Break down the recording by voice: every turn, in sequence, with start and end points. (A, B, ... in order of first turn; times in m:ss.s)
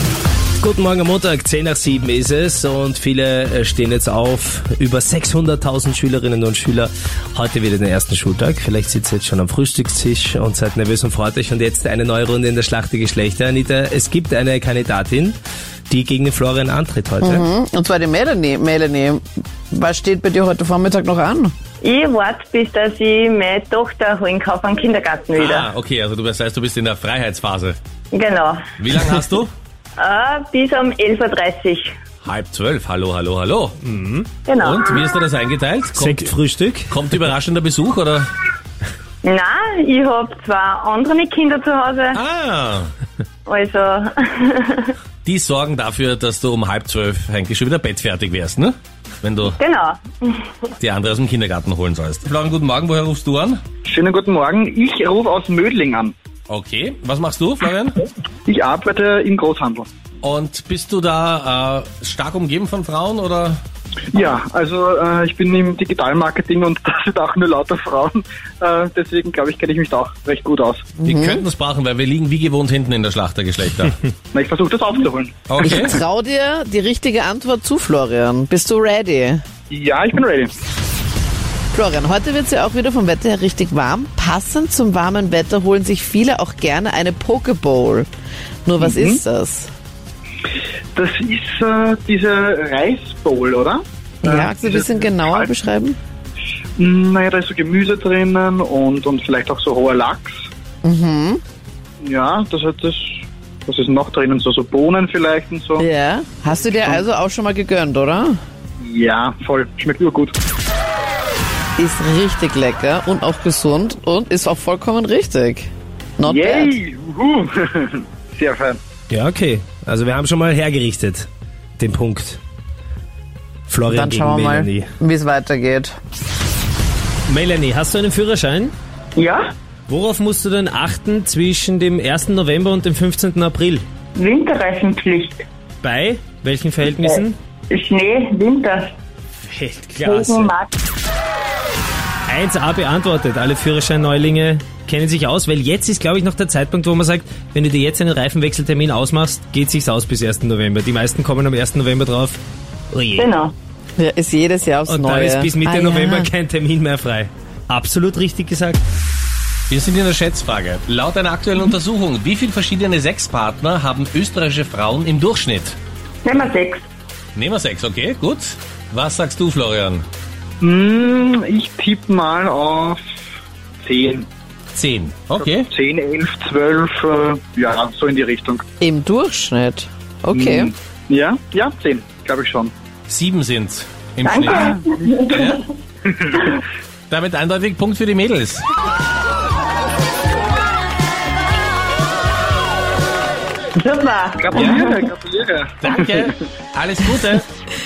0:00.6-0:15.4 A
0:15.9-0:17.5 A
0:17.2-0:21.5 B
0:21.8-0:25.7 C
0:25.3-0:27.8 D
0:28.1-0:28.6 C
0:28.8-0:29.5 D
0:30.0-0:31.9 C
0:32.2-0:33.8 D
0:33.8-0:34.3 E
0:34.5-0:35.0 C
0:34.5-0:36.3 D
0:35.9-0:36.8 E
0:36.9-0:38.3 D
0:39.2-0:42.2 C
0:42.1-0:42.9 D
0:43.4-0:44.9 C
0:45.2-0:49.6 D
0:49.5-0:50.5 C
0:50.8-0:53.6 D
0:53.8-0:56.1 F
0:56.5-0:58.0 D
0:58.5-0:59.9 F
1:00.2-1:03.6 D
1:04.1-1:10.9 F
1:11.0-1:11.4 B
1:11.0-1:14.0 D
1:14.3-1:15.4 F
1:15.5-1:16.0 D
1:15.6-1:19.4 B
1:19.7-1:20.5 F
1:21.7-1:28.1 B
1:28.6-1:29.7 B
1:28.8-1:29.2 F
1:30.9-1:35.5 F
1:34.2-1:36.0 B
1:36.8-1:40.5 F
1:40.8-1:41.4 B
1:42.0-1:45.8 F
1:45.8-1:48.4 B
1:48.8-1:50.3 F
1:51.8-1:56.7 B
1:56.2-1:58.8 F
1:59.1-1:59.8 E
1:59.8-2:01.3 A
2:01.8-2:02.4 A
2:03.7-2:04.8 A
2:03.9-2:04.5 E
2:03.9-2:05.9 B
2:07.3-2:08.7 E
2:09.1-2:09.5 C
2:09.9-2:13.8 E
2:14.1-2:15.4 C
2:15.8-2:17.3 E
2:16.9-2:18.9 C
2:19.5-2:20.5 E
2:20.0-2:20.7 C
2:22.3-2:32.4 E
2:32.9-2:33.3 E
2:33.2-2:33.5 C
2:34.0-2:36.3 B
2:34.9-2:38.8 E
2:39.7-2:45.8 D
2:46.2-2:46.8 C
2:47.3-2:50.0 D
2:50.6-2:53.0 F
2:53.8-2:54.3 F
2:54.7-2:55.6 D
2:55.6-2:58.6 F
2:58.8-3:00.7 B
3:00.3-3:02.7 F
3:03.1-3:05.6 D
3:04.2-3:05.6 C
3:04.7-3:05.0 F
3:06.1-3:06.4 F
3:07.1-3:08.7 D
3:13.8-3:15.0 C
3:14.4-3:16.3 F
3:15.8-3:17.5 D